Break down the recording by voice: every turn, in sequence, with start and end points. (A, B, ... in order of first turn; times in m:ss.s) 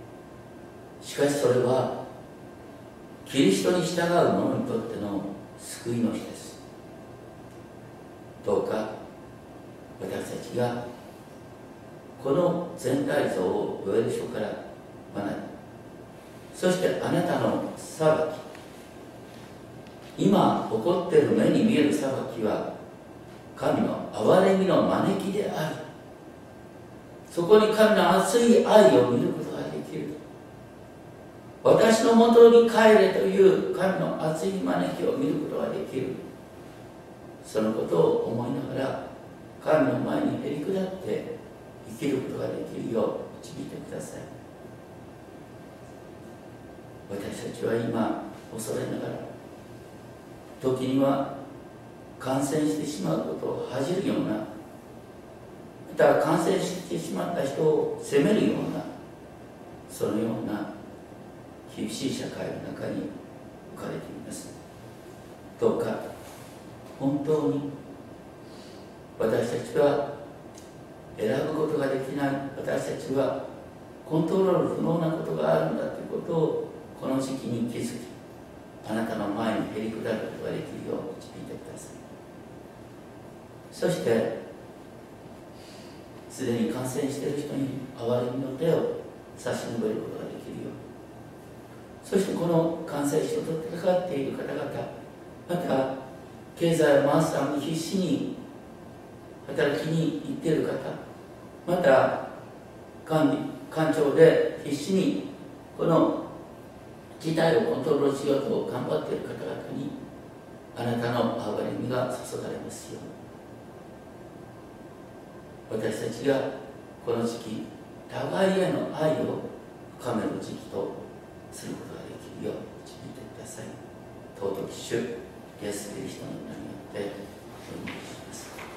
0:01.0-0:02.0 A
0:03.2-0:06.6 A
0:08.4-0:08.9 A
0:10.0-0:10.8 A
0:12.2-0:14.6 A
0:15.1-0:15.5 A
0:16.5-0:18.4 A
0:20.2-0:22.7 A
0:23.5-0:25.8 A
0:27.3-0:30.2 A
0:31.6-0:36.2 A
0:37.4-0:39.0 A
0:39.6-0:41.3 A
0:41.8-0:44.3 A
0:47.1-0:49.2 A
0:50.6-0:51.3 A
0:52.2-0:54.4 A
0:55.9-0:58.9 A
0:59.9-1:00.7 A
1:01.7-1:03.1 A
1:03.7-1:04.5 A
1:05.6-1:06.0 A
1:07.0-1:07.7 A
1:09.2-1:10.0 A
1:11.2-1:13.4 A
1:14.0-1:18.1 A
1:18.8-1:22.0 A
1:23.7-1:24.3 A
1:26.3-1:30.8 A
1:32.0-1:34.9 A
1:35.5-1:35.9 A
1:36.6-1:38.3 A
1:39.4-1:41.0 A
1:41.6-1:42.2 A
1:43.0-1:46.2 A
1:47.2-1:49.9 A
1:50.7-1:53.1 A
1:55.7-1:56.5 A
1:57.0-2:00.9 A
2:01.5-2:03.7 A
2:04.4-2:07.1 A
2:07.6-2:08.5 A